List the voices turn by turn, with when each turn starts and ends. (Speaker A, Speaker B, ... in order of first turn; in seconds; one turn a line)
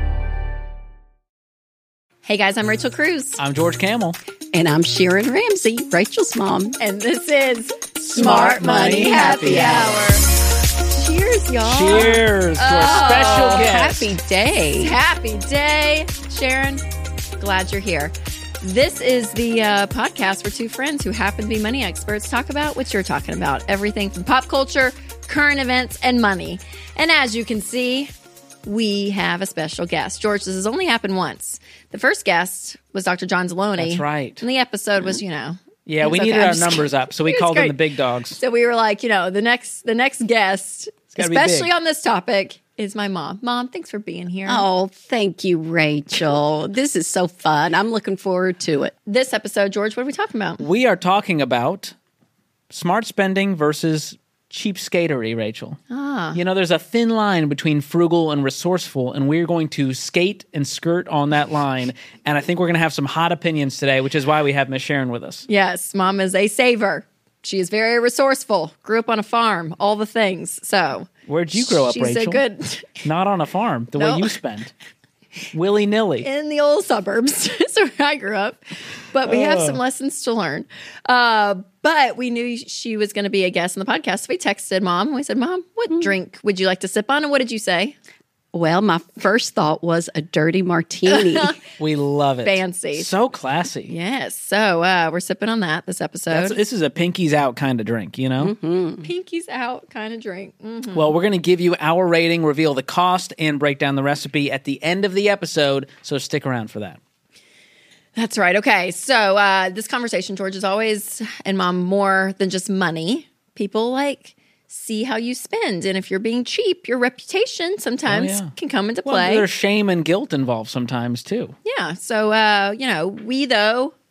Speaker A: 2.2-3.4
Speaker B: 3.4-4.2
Speaker C: 4.5-6.8
Speaker A: 6.8-10.2
Speaker B: 8.0-9.9
Speaker C: 8.4-10.0
Speaker A: 10.9-13.8
Speaker B: 11.6-14.1
Speaker C: 13.0-14.9
Speaker A: 14.8-16.8
Speaker A: 17.4-28.1
Speaker A: 28.6-37.8
Speaker B: 33.8-34.4
Speaker B: 35.9-38.4
Speaker A: 38.4-44.6
Speaker B: 41.1-41.7
Speaker C: 44.5-48.9
Speaker A: 49.0-50.6
Speaker B: 50.6-51.9
Speaker B: 52.7-55.8
Speaker A: 55.9-56.4
Speaker B: 56.3-65.5
Speaker A: 65.5-73.0
Speaker B: 71.3-72.4
Speaker B: 73.0-74.7
Speaker A: 74.0-74.3
Speaker B: 75.5-76.3
Speaker A: 76.2-78.6
Speaker A: 79.1-87.9
Speaker B: 79.3-79.8
Speaker C: 88.5-91.6
Speaker A: 91.1-91.6
Speaker B: 91.8-93.9
Speaker A: 92.4-93.1
Speaker A: 93.9-96.6
Speaker B: 96.3-98.5
Speaker C: 98.4-99.1
Speaker A: 99.0-101.1
Speaker B: 100.9-107.0
Speaker A: 108.2-119.5
Speaker B: 118.0-118.5
Speaker B: 119.0-121.5
Speaker A: 121.6-123.9